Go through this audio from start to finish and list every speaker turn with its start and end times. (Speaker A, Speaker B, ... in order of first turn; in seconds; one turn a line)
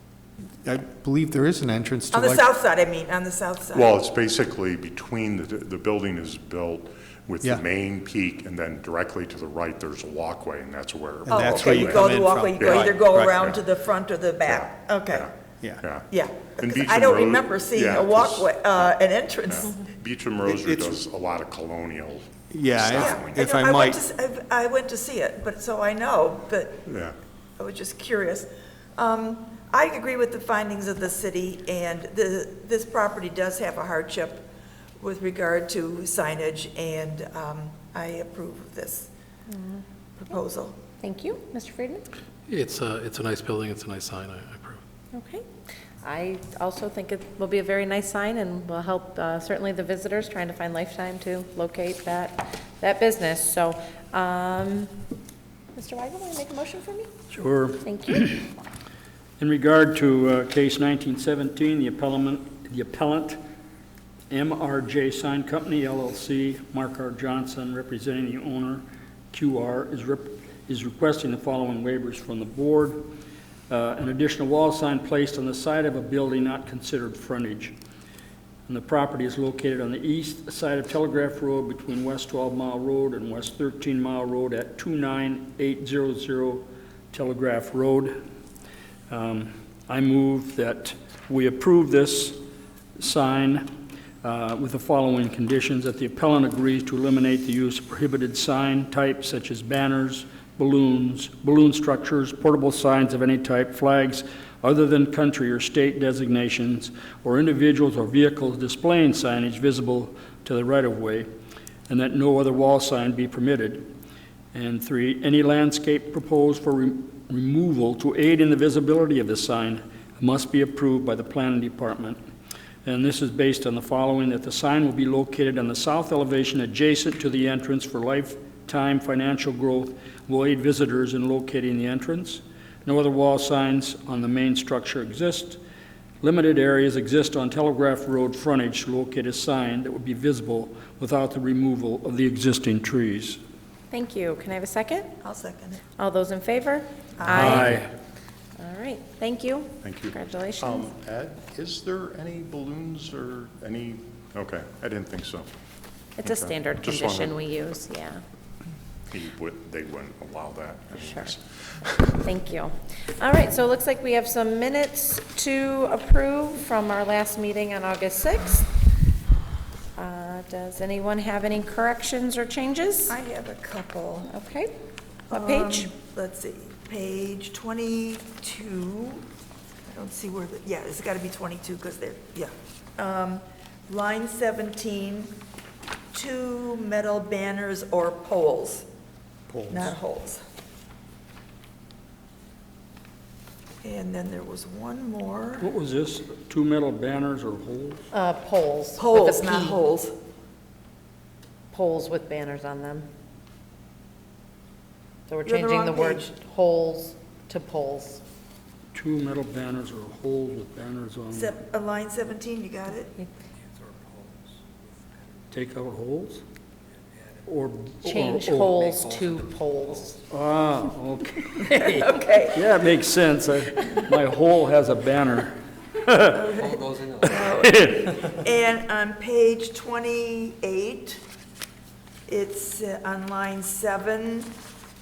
Speaker A: 0.6-2.4
Speaker B: 2.1-4.0
Speaker C: 3.7-13.6
Speaker A: 11.2-13.4
Speaker B: 11.3-15.3
Speaker C: 14.4-16.1
Speaker B: 16.1-19.8
Speaker C: 16.6-18.5
Speaker C: 19.5-23.4
Speaker A: 20.4-21.0
Speaker A: 22.5-24.0
Speaker B: 22.9-26.9
Speaker C: 26.9-27.1
Speaker B: 27.6-34.5
Speaker B: 35.0-39.1
Speaker D: 39.5-39.8
Speaker B: 40.2-40.8
Speaker D: 41.0-42.0
Speaker E: 42.5-44.8
Speaker D: 45.1-45.4
Speaker D: 46.0-55.0
Speaker D: 55.7-57.1
Speaker F: 57.3-58.4
Speaker D: 57.8-58.3
Speaker F: 59.4-63.4
Speaker F: 64.3-73.1
Speaker F: 73.7-77.8
Speaker F: 78.7-88.2
Speaker F: 89.1-92.4
Speaker F: 93.0-111.3
Speaker F: 111.9-113.9
Speaker F: 114.5-122.2
Speaker F: 122.8-135.6
Speaker F: 136.2-143.4
Speaker D: 143.9-145.1
Speaker B: 145.2-145.8
Speaker D: 146.0-147.7
Speaker B: 147.2-147.7
Speaker F: 147.3-147.9
Speaker D: 148.6-150.9
Speaker C: 149.8-155.5
Speaker D: 156.2-158.2
Speaker C: 156.2-157.4
Speaker C: 159.1-162.2
Speaker D: 160.9-161.3
Speaker D: 162.1-168.7
Speaker D: 169.9-173.1
Speaker B: 173.1-174.3
Speaker D: 174.2-174.7
Speaker D: 175.3-175.9
Speaker B: 175.3-179.2
Speaker B: 179.9-185.3
Speaker B: 186.1-188.9
Speaker A: 189.5-189.9
Speaker B: 189.7-190.4
Speaker B: 193.8-195.7
Speaker F: 195.6-198.1
Speaker D: 198.1-199.8
Speaker B: 198.9-200.1
Speaker D: 201.7-203.1
Speaker D: 205.3-208.2
Speaker B: 205.4-206.3
Speaker F: 208.9-211.6
Speaker B: 211.3-213.2
Speaker F: 215.5-216.4
Speaker F: 217.4-218.8
Speaker D: 218.0-220.2
Speaker F: 220.3-226.6
Speaker D: 221.9-222.4
Speaker B: 226.4-231.2
Speaker F: 227.2-228.2
Speaker B: 232.3-234.6